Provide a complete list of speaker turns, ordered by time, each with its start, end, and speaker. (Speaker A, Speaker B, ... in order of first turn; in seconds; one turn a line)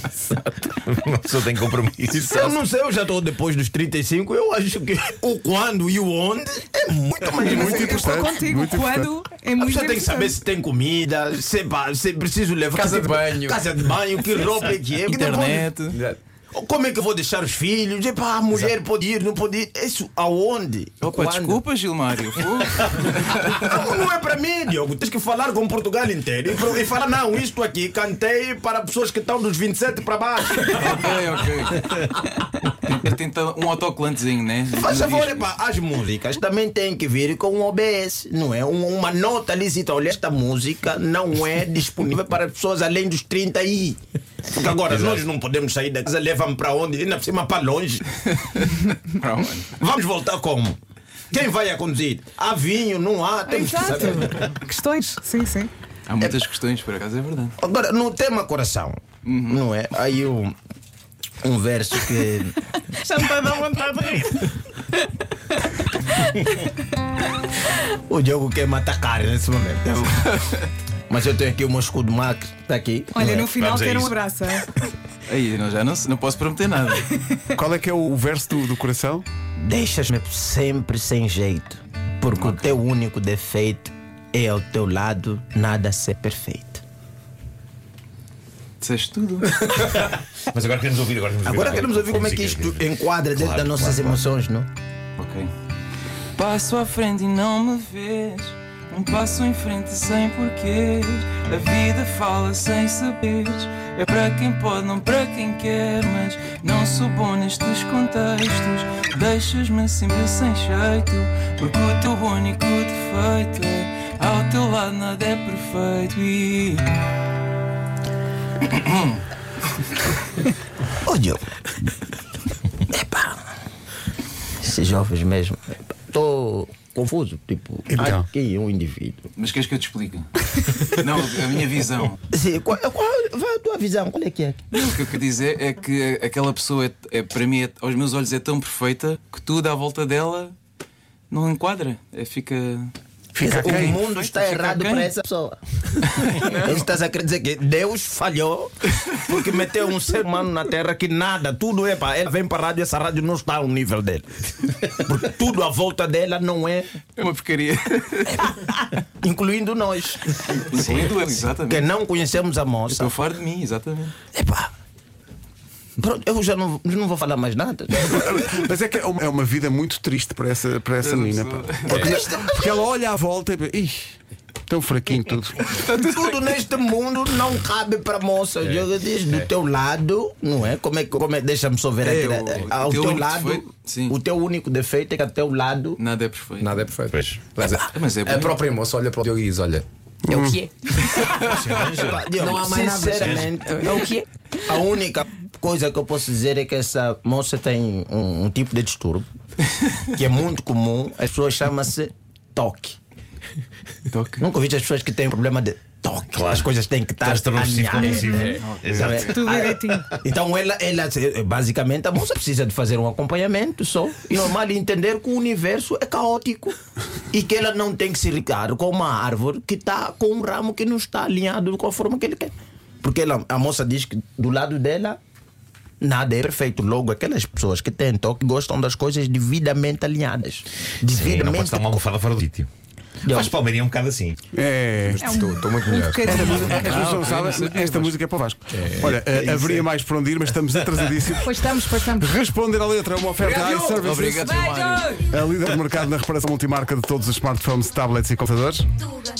Speaker A: 0.8-2.6
Speaker B: 2.1-8.0
Speaker C: 7.4-10.4
Speaker D: 7.4-9.1
Speaker B: 9.6-15.7
Speaker E: 12.7-13.8
Speaker F: 15.1-16.0
Speaker E: 15.9-16.2
Speaker B: 16.5-21.6
Speaker F: 21.0-23.7
Speaker B: 22.8-31.2
Speaker F: 30.7-35.5
Speaker B: 34.8-44.0
Speaker B: 44.5-48.0
Speaker A: 44.8-45.2
Speaker F: 48.3-49.7
Speaker B: 49.8-50.8
Speaker B: 51.3-54.5
Speaker C: 53.5-55.7
Speaker F: 56.1-57.5
Speaker B: 57.6-60.5
Speaker F: 59.2-59.6
Speaker B: 61.4-62.5
Speaker C: 63.0-64.6
Speaker C: 66.1-66.6
Speaker B: 67.8-70.3
Speaker B: 71.1-73.3
Speaker C: 73.1-74.7
Speaker A: 73.2-74.2
Speaker F: 75.3-77.1
Speaker D: 77.6-79.2
Speaker B: 79.6-86.8
Speaker F: 82.3-82.8
Speaker F: 88.8-89.5
Speaker A: 89.8-94.2
Speaker B: 91.4-94.7
Speaker F: 95.2-95.5
Speaker F: 96.3-116.9
Speaker F: 118.7-119.2
Speaker B: 121.0-121.4
Speaker B: 122.8-123.5
Speaker B: 124.6-129.3
Speaker D: 127.9-128.2
Speaker F: 129.3-132.2
Speaker B: 132.3-134.7
Speaker F: 134.7-140.5
Speaker F: 141.3-142.9
Speaker D: 143.3-144.0
Speaker B: 143.4-156.9
Speaker F: 143.5-145.1
Speaker F: 146.1-146.7
Speaker F: 157.1-158.5
Speaker B: 158.4-161.1
Speaker F: 160.5-161.8
Speaker B: 161.6-163.2
Speaker F: 162.9-164.1
Speaker B: 164.3-164.7
Speaker B: 166.0-168.2
Speaker D: 168.1-175.7
Speaker F: 171.0-172.2
Speaker B: 171.9-172.8
Speaker E: 171.9-172.2
Speaker F: 175.7-176.7
Speaker B: 176.0-186.0
Speaker E: 178.6-179.5
Speaker F: 182.0-184.2
Speaker F: 186.0-186.8
Speaker E: 186.6-194.2
Speaker A: 187.1-187.4
Speaker F: 187.9-188.6
Speaker D: 190.3-190.6
Speaker F: 191.2-191.9
Speaker A: 191.5-192.4
Speaker B: 191.9-199.2
Speaker B: 200.1-203.0
Speaker F: 204.1-204.4
Speaker B: 204.4-216.8
Speaker A: 206.3-209.4
Speaker E: 208.3-208.6
Speaker F: 208.6-209.5
Speaker C: 209.3-210.1
Speaker B: 217.3-225.2
Speaker B: 226.0-232.1
Speaker A: 231.1-232.7
Speaker B: 233.2-233.5
Speaker A: 233.3-234.3
Speaker D: 234.5-235.2
Speaker E: 235.1-237.2
Speaker C: 235.1-237.1
Speaker D: 236.2-241.5
Speaker F: 236.8-238.1
Speaker E: 238.7-239.8
Speaker C: 241.4-242.3
Speaker D: 242.0-244.5
Speaker F: 243.4-245.2
Speaker C: 244.3-245.2
Speaker D: 245.3-248.9